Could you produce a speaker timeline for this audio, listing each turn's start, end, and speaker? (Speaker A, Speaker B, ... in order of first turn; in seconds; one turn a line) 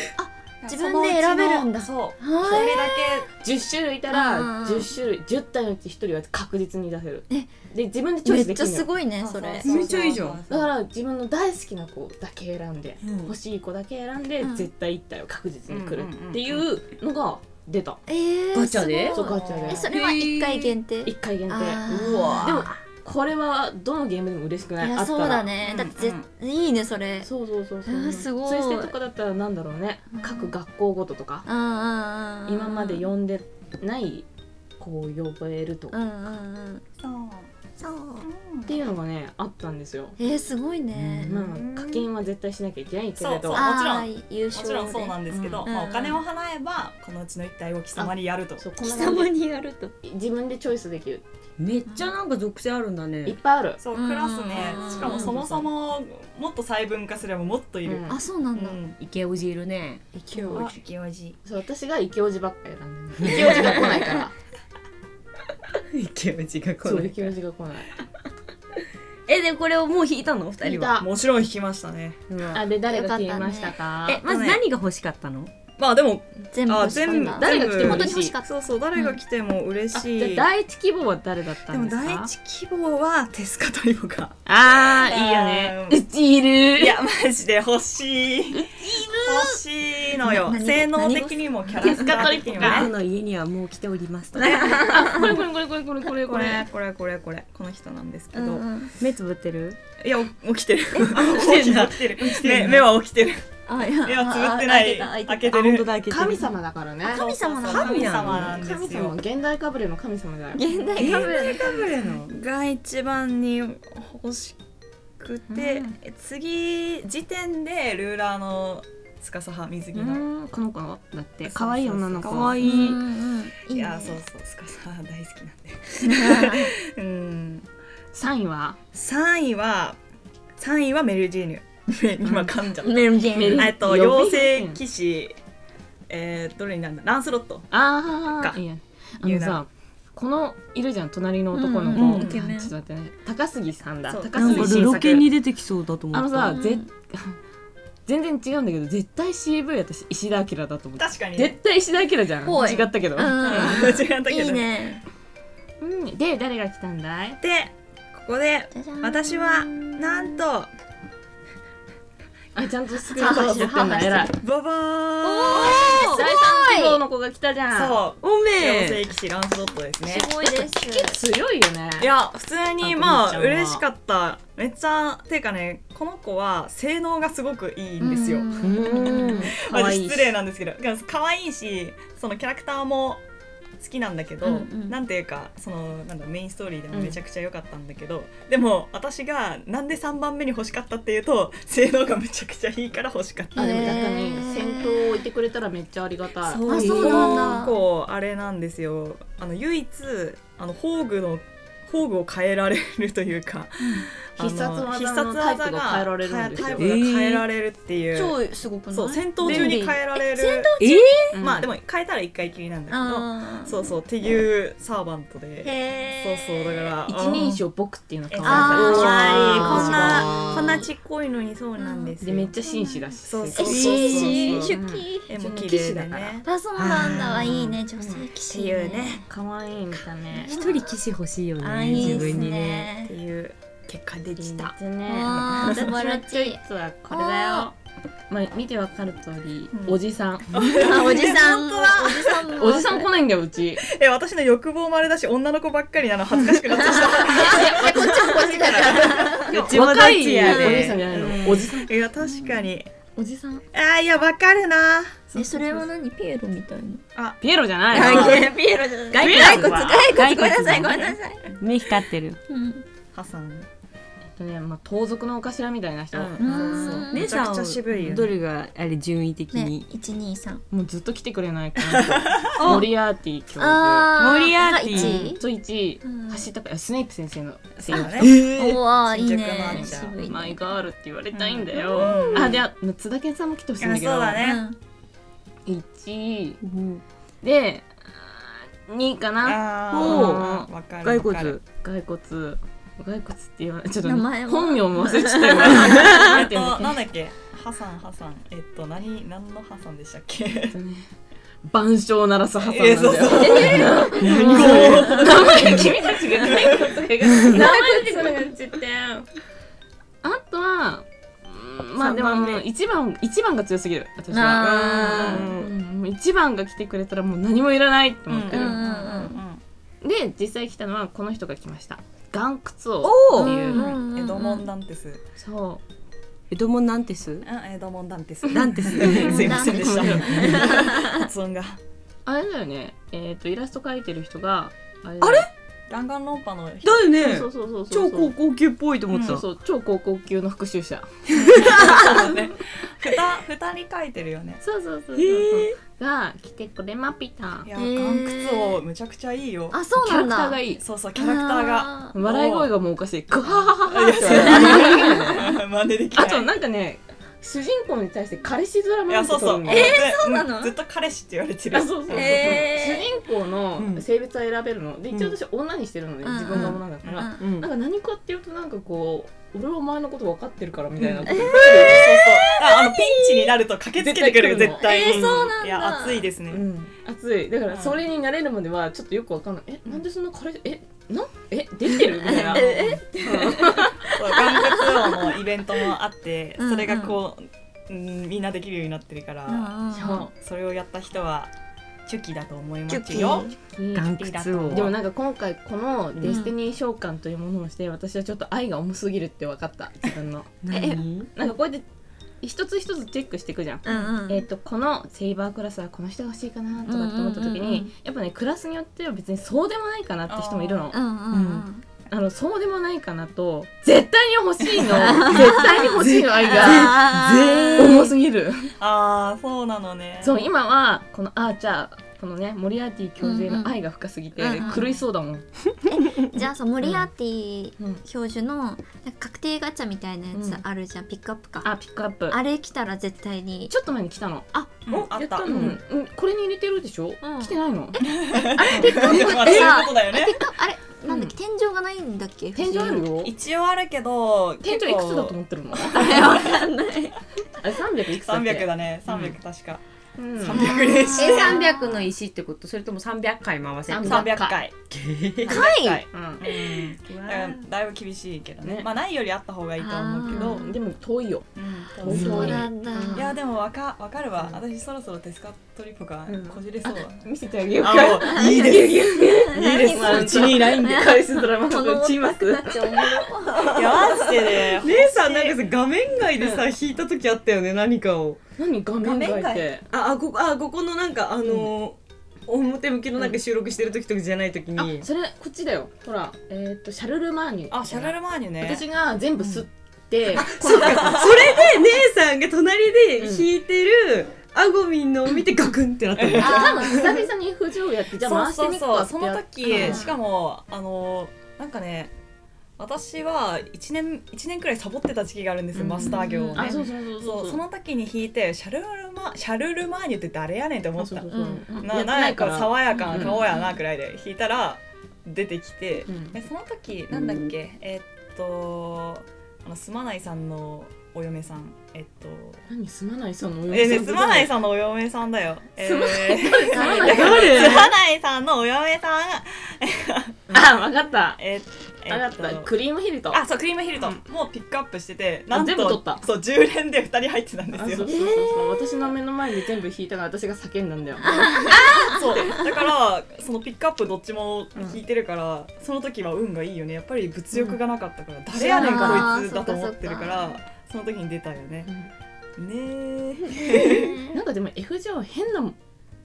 Speaker A: 0.2-3.2
Speaker B: 0.6-3.3
Speaker C: 3.3-8.9
Speaker A: 4.1-4.9
Speaker A: 8.2-10.2
Speaker B: 9.2-10.7
Speaker D: 9.6-10.4
Speaker C: 10.5-18.0
Speaker D: 13.0-13.3
Speaker A: 14.4-14.7
Speaker B: 15.7-16.6
Speaker A: 18.1-22.7
Speaker D: 18.5-19.2
Speaker C: 19.1-19.9
Speaker B: 19.4-19.9
Speaker D: 19.9-20.7
Speaker C: 21.0-25.5
Speaker A: 24.8-27.3
Speaker B: 25.6-26.2
Speaker C: 27.2-31.4
Speaker A: 27.9-28.9
Speaker A: 30.1-30.5
Speaker A: 31.4-33.0
Speaker C: 32.5-34.2
Speaker C: 34.8-35.9
Speaker A: 35.9-36.8
Speaker B: 37.0-37.5
Speaker A: 37.8-38.2
Speaker B: 38.2-38.8
Speaker C: 38.6-40.1
Speaker A: 40.2-41.3
Speaker B: 41.0-42.1
Speaker C: 41.3-43.6
Speaker B: 43.2-48.6
Speaker A: 43.5-46.2
Speaker C: 45.3-45.7
Speaker C: 48.0-49.3
Speaker A: 48.8-49.9
Speaker C: 50.0-51.2
Speaker D: 51.6-53.4
Speaker C: 53.2-53.8
Speaker B: 53.8-59.0
Speaker A: 53.9-55.4
Speaker C: 54.8-55.7
Speaker C: 57.8-58.2
Speaker A: 58.1-58.8
Speaker D: 59.0-60.0
Speaker C: 60.1-60.8
Speaker B: 60.3-61.4
Speaker C: 61.4-64.3
Speaker D: 65.9-67.3
Speaker C: 66.8-68.0
Speaker D: 69.2-71.0
Speaker C: 70.6-71.1
Speaker B: 71.0-72.2
Speaker D: 72.3-72.6
Speaker C: 72.5-74.2
Speaker A: 72.8-73.8
Speaker D: 74.0-75.5
Speaker B: 74.2-74.6
Speaker B: 75.8-80.5
Speaker A: 76.5-79.2
Speaker C: 76.8-78.4
Speaker C: 79.9-82.3
Speaker B: 81.7-86.0
Speaker C: 84.5-87.0
Speaker B: 86.8-92.9
Speaker C: 88.6-89.5
Speaker A: 90.2-92.2
Speaker C: 91.7-92.9
Speaker D: 92.5-94.8
Speaker B: 94.4-95.4
Speaker A: 94.5-95.3
Speaker C: 94.6-96.6
Speaker B: 96.2-98.7
Speaker A: 98.3-98.9
Speaker D: 99.0-99.8
Speaker B: 100.0-105.9
Speaker A: 101.0-101.3
Speaker D: 101.0-102.9
Speaker A: 103.7-105.8
Speaker D: 105.5-106.5
Speaker C: 106.1-107.3
Speaker A: 107.0-108.4
Speaker B: 107.0-109.2
Speaker D: 107.6-108.7
Speaker C: 108.2-110.6
Speaker A: 110.5-111.9
Speaker B: 110.7-114.6
Speaker D: 111.0-112.4
Speaker B: 115.2-120.2
Speaker C: 115.5-115.8
Speaker C: 119.9-123.0
Speaker B: 121.5-123.0
Speaker A: 122.6-124.2
Speaker B: 123.7-127.7
Speaker A: 126.0-126.7
Speaker C: 128.1-128.8
Speaker B: 128.9-130.0
Speaker B: 130.6-135.3
Speaker C: 132.2-132.5
Speaker A: 132.8-133.8
Speaker C: 133.3-134.8
Speaker B: 136.1-137.7
Speaker C: 137.7-145.3
Speaker B: 139.2-139.6
Speaker A: 141.5-142.7
Speaker D: 141.9-142.2
Speaker B: 141.9-142.4
Speaker B: 144.1-145.3
Speaker D: 144.3-146.6
Speaker C: 146.1-147.4
Speaker A: 146.5-146.9
Speaker C: 148.1-153.9
Speaker B: 151.0-151.6
Speaker A: 152.4-155.0
Speaker B: 153.3-155.0
Speaker C: 155.8-157.4
Speaker B: 157.4-160.7
Speaker A: 158.7-160.4
Speaker C: 162.5-164.3
Speaker A: 163.2-164.3
Speaker B: 163.2-166.2
Speaker A: 165.2-167.0
Speaker C: 165.9-168.0
Speaker B: 167.7-170.3
Speaker D: 168.2-169.0
Speaker A: 170.0-171.2
Speaker C: 170.4-172.1
Speaker B: 172.0-183.2
Speaker C: 172.8-173.8
Speaker A: 178.0-179.5
Speaker D: 178.6-179.6
Speaker C: 179.5-180.4
Speaker B: 183.8-194.0
Speaker A: 184.4-184.9
Speaker C: 186.9-187.2
Speaker C: 193.5-197.6
Speaker A: 193.6-195.2
Speaker A: 196.5-197.8
Speaker D: 196.6-197.6
Speaker B: 196.8-208.4
Speaker C: 204.4-207.0
Speaker D: 206.6-207.4
Speaker A: 208.1-211.3
Speaker B: 208.9-210.7
Speaker D: 209.4-209.8
Speaker D: 210.8-211.4
Speaker C: 211.3-211.7
Speaker B: 211.4-217.6
Speaker A: 212.9-213.7
Speaker A: 215.6-217.4
Speaker C: 217.1-220.3
Speaker B: 218.3-222.5
Speaker A: 218.4-220.9
Speaker D: 220.0-220.6
Speaker A: 221.8-225.3
Speaker C: 222.2-226.4
Speaker B: 223.2-224.8
Speaker D: 223.7-224.2
Speaker B: 225.3-226.5
Speaker A: 226.4-229.2
Speaker D: 226.7-227.7
Speaker B: 227.7-229.2
Speaker C: 229.3-230.5
Speaker A: 230.4-230.9
Speaker D: 230.4-232.9
Speaker A: 231.6-233.1
Speaker B: 232.0-232.5
Speaker B: 233.0-234.7
Speaker C: 234.4-237.7
Speaker A: 235.1-237.7
Speaker B: 235.3-235.9
Speaker C: 238.3-240.5
Speaker B: 239.7-240.0
Speaker B: 240.5-242.6
Speaker A: 240.7-243.0
Speaker C: 242.6-243.8
Speaker B: 243.8-252.9
Speaker A: 246.8-249.5
Speaker C: 247.2-251.9
Speaker D: 249.4-251.6
Speaker A: 250.5-250.8
Speaker A: 252.2-252.6
Speaker C: 253.2-253.6
Speaker B: 253.7-255.8
Speaker A: 255.3-257.0
Speaker B: 257.1-258.5
Speaker C: 257.4-258.5
Speaker A: 257.9-261.4
Speaker D: 258.0-258.3
Speaker D: 259.1-262.4
Speaker C: 259.1-260.1
Speaker A: 262.5-262.8
Speaker B: 263.1-263.7
Speaker C: 264.4-267.0
Speaker B: 266.1-268.3
Speaker A: 266.4-267.3
Speaker D: 267.0-269.9
Speaker A: 269.5-270.6
Speaker C: 270.7-274.1
Speaker B: 271.9-272.8
Speaker D: 272.6-272.9
Speaker A: 273.6-275.4
Speaker D: 274.2-275.3
Speaker C: 274.9-278.3
Speaker A: 276.0-276.5
Speaker B: 277.8-280.2
Speaker A: 277.9-280.6
Speaker D: 278.2-278.8
Speaker C: 279.7-284.4
Speaker B: 281.3-282.6
Speaker A: 281.9-282.5
Speaker B: 283.8-284.6
Speaker A: 284.4-284.8
Speaker C: 285.6-286.6
Speaker D: 286.6-287.0
Speaker C: 287.4-290.7
Speaker B: 289.4-291.6
Speaker D: 289.9-290.5
Speaker D: 291.0-291.6
Speaker C: 291.8-297.0
Speaker A: 294.0-296.2
Speaker B: 295.7-300.8
Speaker C: 300.7-301.1
Speaker C: 301.6-309.2
Speaker B: 302.6-306.9
Speaker A: 303.3-304.9
Speaker D: 304.1-306.0
Speaker D: 307.3-307.7
Speaker A: 307.5-308.5
Speaker C: 310.2-318.9
Speaker D: 312.0-312.6
Speaker A: 314.3-315.5
Speaker D: 314.6-315.7
Speaker B: 318.3-319.6
Speaker A: 318.5-319.4
Speaker C: 320.0-323.9
Speaker D: 323.0-323.7
Speaker A: 323.4-324.7
Speaker B: 323.7-325.2
Speaker C: 325.4-325.8
Speaker D: 326.5-327.5
Speaker B: 327.4-331.8
Speaker D: 328.5-330.5
Speaker C: 329.0-330.9
Speaker A: 329.2-331.2
Speaker C: 332.2-335.5
Speaker D: 335.2-335.5
Speaker B: 335.9-337.1
Speaker D: 336.8-339.4
Speaker C: 337.1-338.3
Speaker B: 339.1-339.4
Speaker C: 339.2-342.3
Speaker D: 341.3-342.0
Speaker B: 341.4-344.6
Speaker C: 344.6-347.7
Speaker D: 345.1-345.8
Speaker B: 347.6-349.8
Speaker A: 347.7-348.8
Speaker A: 349.7-350.6
Speaker C: 349.9-350.8
Speaker B: 350.8-352.7
Speaker A: 351.1-352.1
Speaker C: 352.1-355.6
Speaker B: 353.5-356.5
Speaker A: 354.3-355.2
Speaker C: 356.1-360.0
Speaker B: 359.1-362.7
Speaker A: 359.6-360.7
Speaker C: 361.7-372.1
Speaker A: 362.1-363.1
Speaker D: 363.8-364.0
Speaker D: 365.1-365.3
Speaker A: 366.2-367.4
Speaker D: 366.5-366.8
Speaker D: 367.4-367.7
Speaker B: 371.2-376.6
Speaker A: 371.4-373.5
Speaker C: 374.0-375.4
Speaker A: 374.7-376.3
Speaker C: 376.5-384.1
Speaker B: 377.7-378.0
Speaker B: 382.2-383.0
Speaker A: 382.2-385.4
Speaker B: 384.1-391.5
Speaker A: 386.6-387.2
Speaker A: 389.5-390.2
Speaker C: 389.9-390.3
Speaker B: 392.1-393.5
Speaker A: 392.9-393.5
Speaker C: 393.6-400.5
Speaker D: 393.9-394.9
Speaker B: 394.1-395.0
Speaker D: 396.1-396.4
Speaker A: 396.2-396.5
Speaker D: 400.6-401.3
Speaker A: 400.7-401.0
Speaker C: 401.4-401.9
Speaker C: 402.4-411.0
Speaker A: 403.8-404.4
Speaker A: 406.9-407.9
Speaker B: 410.3-410.9
Speaker A: 410.9-411.8
Speaker D: 411.3-411.7
Speaker C: 412.1-417.1
Speaker B: 414.8-415.3
Speaker A: 415.1-415.9
Speaker D: 415.8-418.1
Speaker A: 416.5-418.1
Speaker C: 417.8-418.7
Speaker B: 418.8-420.4
Speaker C: 420.2-425.4
Speaker A: 423.2-423.7
Speaker A: 424.4-424.9
Speaker B: 424.6-424.9
Speaker A: 425.9-431.7
Speaker C: 426.8-427.1
Speaker C: 430.3-430.6
Speaker C: 431.6-432.4
Speaker A: 432.3-433.7
Speaker C: 433.7-439.9
Speaker B: 434.9-435.7
Speaker A: 437.2-437.5
Speaker B: 438.0-440.5
Speaker A: 438.7-443.0
Speaker C: 441.1-441.3
Speaker C: 442.5-443.3
Speaker B: 443.1-445.4
Speaker C: 444.6-446.4
Speaker B: 445.9-446.6
Speaker A: 445.9-447.2
Speaker C: 447.6-449.2
Speaker B: 448.1-449.8
Speaker C: 450.2-450.9
Speaker B: 450.4-451.6
Speaker A: 450.5-452.0
Speaker D: 451.1-454.4
Speaker C: 453.9-454.6
Speaker B: 454.0-454.7
Speaker D: 454.9-455.6
Speaker B: 455.4-460.7
Speaker A: 455.5-456.0
Speaker C: 456.1-456.5
Speaker D: 457.1-457.6
Speaker C: 458.6-458.9
Speaker A: 459.8-460.7
Speaker C: 460.3-463.3
Speaker B: 461.6-467.2
Speaker D: 462.1-462.6
Speaker A: 462.1-463.3
Speaker C: 466.3-473.3
Speaker B: 467.8-470.9
Speaker A: 469.5-474.6
Speaker B: 473.7-475.6
Speaker D: 474.7-478.4
Speaker C: 476.4-476.6
Speaker C: 478.6-479.8
Speaker D: 479.0-485.1
Speaker C: 484.8-491.3
Speaker B: 487.7-488.8
Speaker D: 490.3-497.2
Speaker B: 490.4-491.7
Speaker C: 493.2-493.5
Speaker B: 496.2-496.7
Speaker C: 496.4-500.1
Speaker A: 496.4-496.9
Speaker B: 498.2-502.1
Speaker A: 499.8-500.1
Speaker B: 502.8-522.6
Speaker C: 505.7-507.6
Speaker A: 506.0-506.7
Speaker C: 511.0-513.4
Speaker A: 511.3-511.8
Speaker A: 512.9-513.7
Speaker C: 516.1-516.4
Speaker C: 522.7-524.5
Speaker B: 523.7-530.7
Speaker C: 525.8-527.9
Speaker A: 526.7-527.5
Speaker D: 527.0-527.9
Speaker C: 530.5-531.4
Speaker B: 531.4-532.7
Speaker C: 532.1-533.4
Speaker B: 533.3-538.1
Speaker C: 535.5-536.2
Speaker C: 537.7-541.8
Speaker A: 538.1-538.7
Speaker A: 541.4-542.4
Speaker B: 541.6-551.9
Speaker C: 547.5-547.8
Speaker C: 548.5-549.4
Speaker A: 548.7-550.5
Speaker B: 552.6-554.2
Speaker C: 553.7-555.8